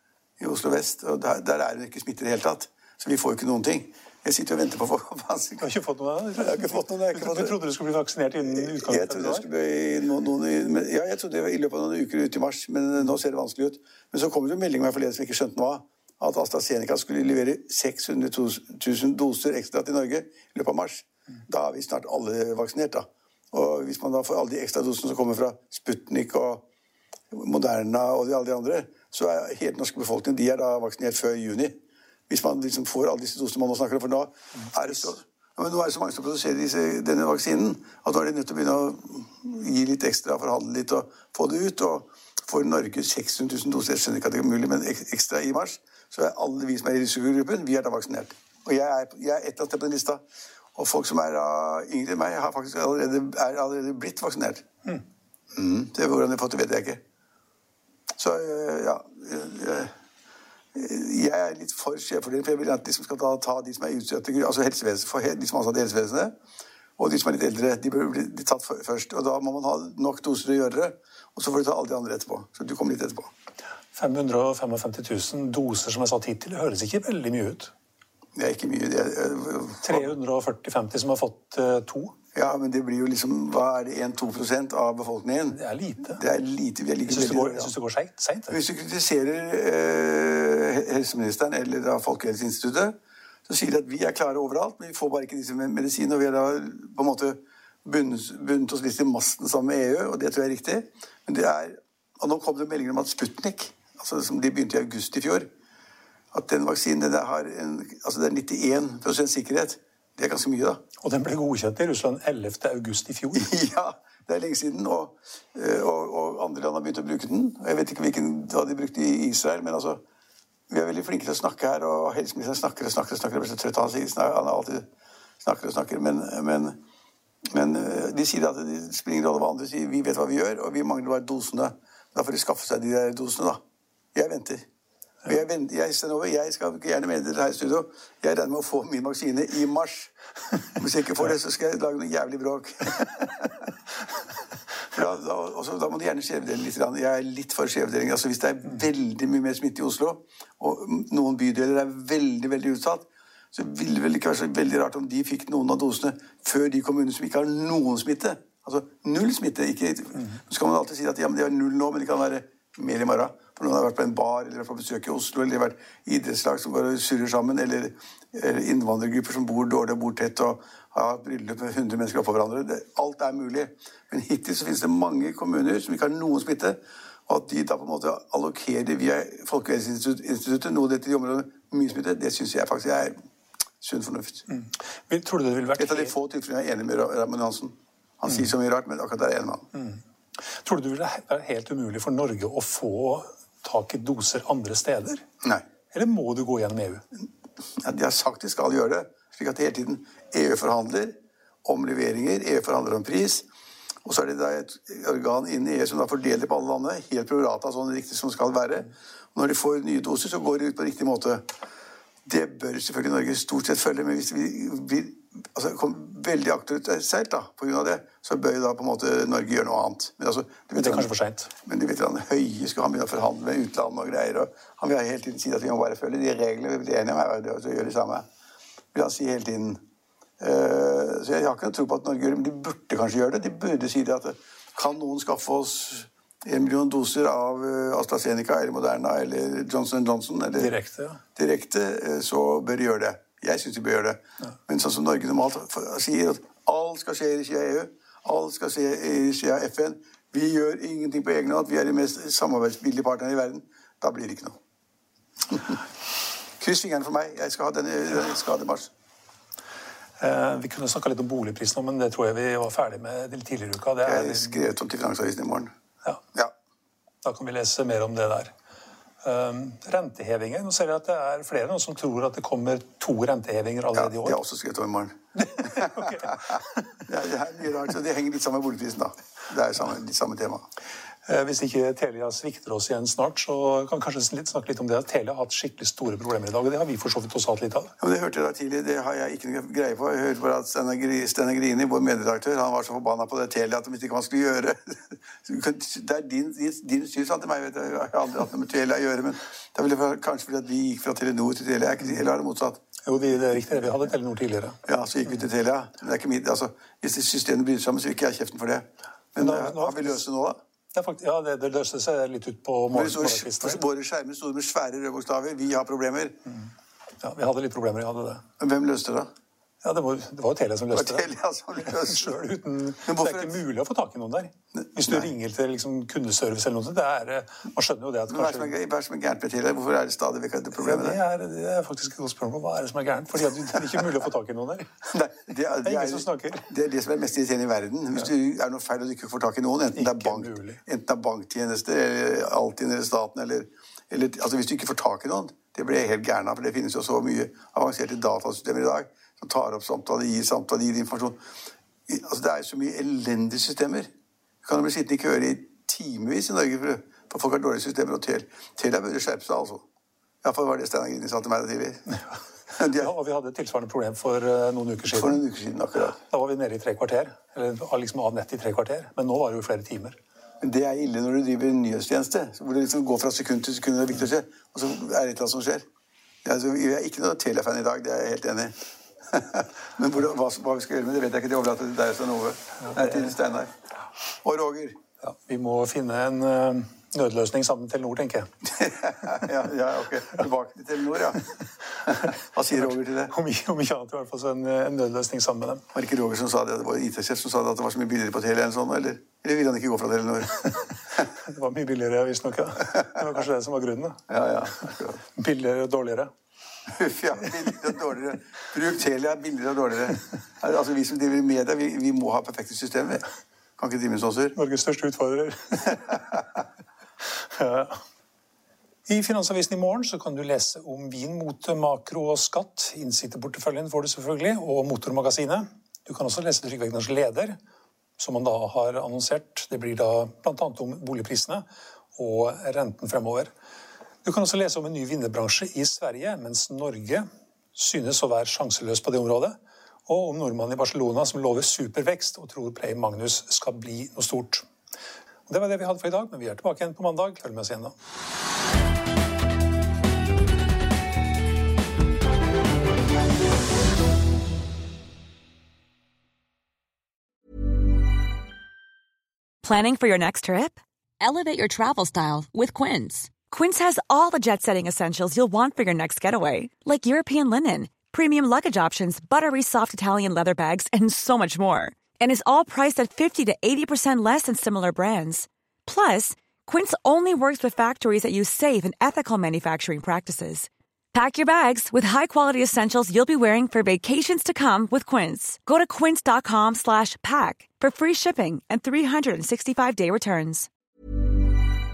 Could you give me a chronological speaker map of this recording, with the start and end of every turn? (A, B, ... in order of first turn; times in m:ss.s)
0:00.4-0:05.7 A
0:05.6-0:09.5 B
0:06.4-0:07.6 A
0:08.4-0:26.6 A
0:27.3-0:31.8 A
0:32.3-0:50.2 A
0:50.7-0:54.6 A
0:55.5-0:57.0 A
0:58.2-0:59.9 A
1:00.7-1:06.4 A
1:07.0-1:13.3 A
1:13.9-1:17.7 B
1:18.4-1:20.1 A
1:19.8-1:22.1 B
1:22.3-1:25.6 A
1:25.5-1:26.2 B
1:26.1-1:27.7 A
1:27.0-1:28.6 B
1:28.5-1:45.5 A
1:46.3-1:50.8 A
1:51.0-1:53.5 B
1:53.4-2:00.0 A
2:00.7-2:04.9 A
2:05.4-2:06.8 A
2:07.4-2:13.6 A
2:14.1-2:14.6 A
2:15.2-2:20.1 A
2:20.7-2:23.7 A
2:24.9-3:03.2 A
3:03.8-3:04.4 A
3:04.5-3:06.1 B
3:05.8-3:09.7 A
3:09.7-3:15.2 B
3:15.9-3:17.0 B
3:17.8-3:23.4 A
3:24.0-3:31.4 A
3:32.2-3:41.1 A
3:40.8-3:41.5 B
3:41.6-3:48.2 A
3:48.9-3:49.8 A
3:50.4-4:00.7 A
4:00.6-4:01.2 B
4:01.4-4:14.6 A
4:15.5-4:15.8 A
4:16.6-4:18.9 A
4:20.2-4:24.6 B
4:24.0-4:25.7 A
4:27.2-4:28.5 B
4:29.2-4:34.4 B
4:33.9-4:36.5 A
4:35.6-4:36.8 B
4:37.1-4:40.7 A
4:41.2-4:47.9 B
4:48.0-5:02.8 A
5:03.0-5:04.8 B
5:04.9-5:10.6 A
5:09.4-5:10.2 B
5:10.9-5:13.8 B
5:12.9-5:16.4 A
5:17.2-5:18.4 B
5:18.6-5:19.3 A
5:19.8-5:21.3 B
5:20.9-5:22.4 A
5:21.8-5:28.7 B
5:23.0-5:23.6 A
5:24.8-5:25.2 A
5:28.3-5:31.2 A
5:30.8-5:34.9 B
5:35.1-5:51.4 A
5:35.8-5:36.7 B
5:39.9-5:40.8 B
5:52.1-5:54.1 A
5:54.6-5:59.9 A
6:00.4-6:02.2 A
6:02.7-6:03.1 A
6:02.8-6:05.4 B
6:05.1-6:06.2 A
6:06.2-6:10.2 B
6:10.6-6:15.9 A
6:16.4-6:18.8 A
6:19.3-6:23.7 A
6:22.9-6:23.1 B
6:24.4-6:25.0 A
6:25.2-6:28.5 B
6:28.7-6:31.5 A
6:32.0-6:33.3 A
6:32.8-6:35.8 B
6:35.9-6:41.2 A
6:41.4-6:44.2 B
6:44.3-6:45.2 A
6:45.4-6:46.3 B
6:46.9-6:53.2 A
6:53.8-6:54.6 A
6:54.5-6:56.2 B
6:57.5-6:58.0 B
6:59.1-7:07.6 B
7:08.2-7:13.5 B
7:14.2-7:24.7 B
7:25.5-7:27.9 B
7:39.6-7:40.8 C
7:43.4-8:10.7 C